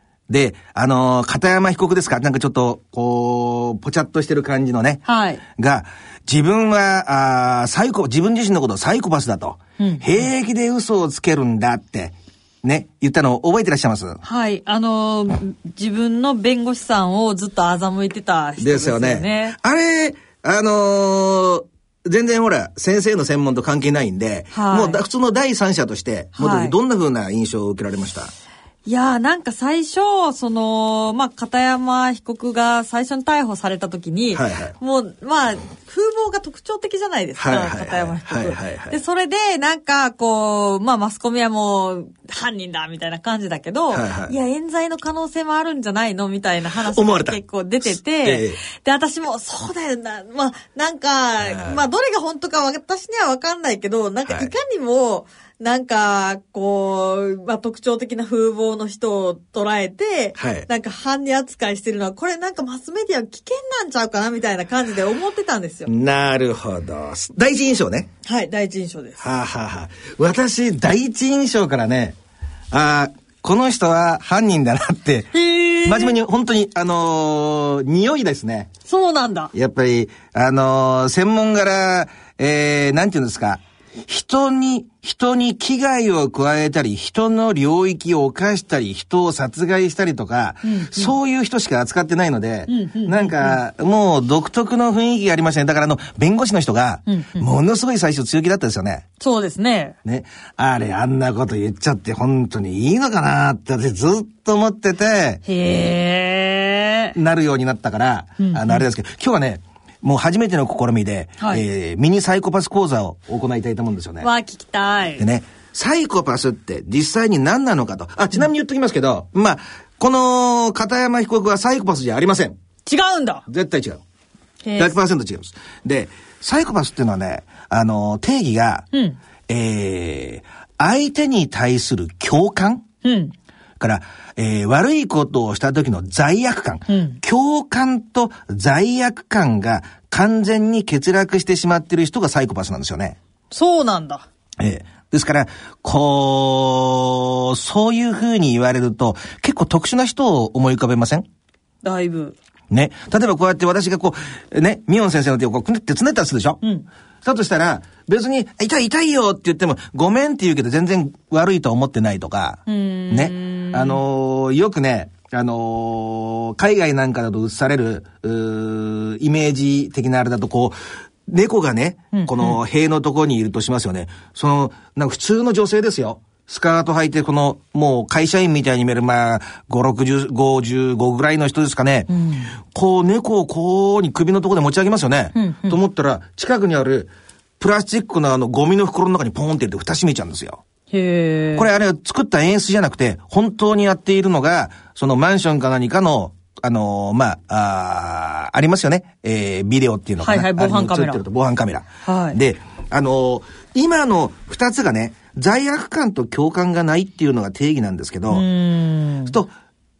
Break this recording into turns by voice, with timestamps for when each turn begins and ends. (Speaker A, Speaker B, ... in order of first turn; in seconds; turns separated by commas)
Speaker A: 0.3-14.2, Speaker B: 5.0-5.4, Speaker B: 9.8-10.1, Speaker B: 14.2-19.6, Speaker A: 18.6-28.3, Speaker B: 24.5-25.0, Speaker B: 26.3-26.7, Speaker B: 28.9-65.9, Speaker A: 34.3-34.7, Speaker A: 37.4-39.0, Speaker A: 43.9-44.4, Speaker A: 46.9-47.4, Speaker A: 48.2-48.6, Speaker A: 51.4-51.8, Speaker A: 54.3-54.5, Speaker A: 60.4-60.7, Speaker A: 65.8-68.1, Speaker B: 68.2-69.2, Speaker A: 69.2-72.2, Speaker A: 72.7-75.3, Speaker B: 75.3-76.2, Speaker A: 75.8-78.7, Speaker B: 78.8-79.5, Speaker A: 79.5-99.0, Speaker B: 90.6-91.2, Speaker B: 92.7-93.6, Speaker B: 97.1-97.5, Speaker B: 99.2-100.0, Speaker A: 100.0-105.4, Speaker B: 105.5-107.1, Speaker A: 107.1-114.3, Speaker B: 108.4-108.8, Speaker B: 114.2-115.2, Speaker A: 115.2-122.5, Speaker B: 122.8-123.4, Speaker A: 123.5-124.0, Speaker B: 124.6-125.0, Speaker A: 124.8-128.8, Speaker B: 128.9-129.2, Speaker A: 129.5-132.8, Speaker B: 133.0-133.3, Speaker A: 133.8-143.2, Speaker B: 136.9-137.2, Speaker B: 143.5-144.2, Speaker A: 144.6-151.2, Speaker B: 151.8-152.3, Speaker A: 152.7-156.6, Speaker A: 157.2-170.8, Speaker B: 162.7-164.0, Speaker A: 171.3-182.1, Speaker B: 172.1-172.6, Speaker B: 182.1-182.5, Speaker A: 182.6-190.6, Speaker B: 185.3-185.8, Speaker B: 190.9-191.7, Speaker A: 191.6-208.4, Speaker B: 200.2-201.2, Speaker B: 202.0-202.4, Speaker B: 208.3-209.4